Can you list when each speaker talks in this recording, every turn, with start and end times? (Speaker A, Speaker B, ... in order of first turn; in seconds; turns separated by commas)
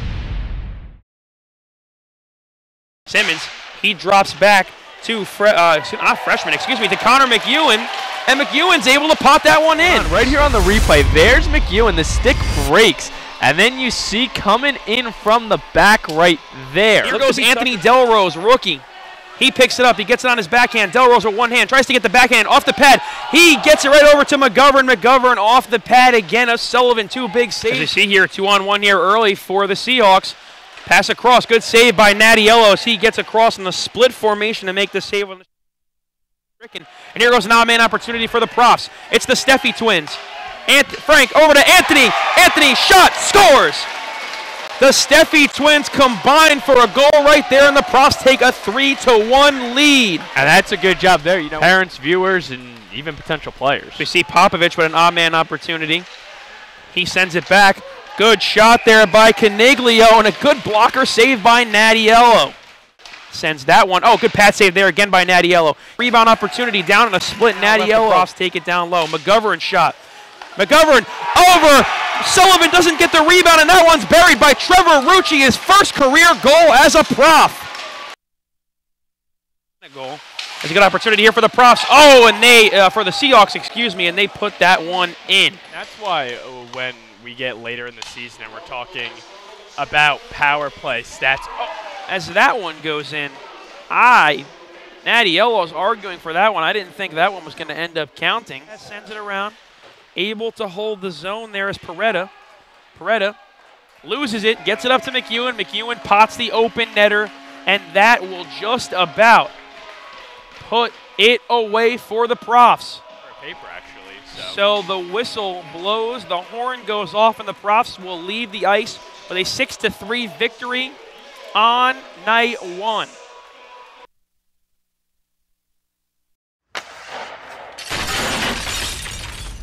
Speaker A: 3.1-10.4, Speaker B: 9.8-17.6, Speaker A: 17.0-18.8, Speaker A: 19.4-35.5, Speaker A: 36.6-43.9, Speaker A: 44.8-50.3, Speaker B: 50.3-54.0, Speaker A: 54.0-56.0, Speaker A: 56.9-62.5, Speaker A: 63.3-70.0, Speaker B: 67.5-68.3, Speaker A: 70.6-77.7, Speaker A: 79.8-85.6, Speaker B: 85.7-89.2, Speaker B: 89.8-91.7, Speaker A: 92.1-94.5, Speaker A: 95.0-99.5, Speaker A: 100.1-102.3, Speaker A: 102.9-103.3, Speaker A: 104.0-109.5, Speaker A: 110.6-113.0, Speaker B: 113.2-114.6, Speaker A: 114.3-121.0, Speaker A: 121.5-123.1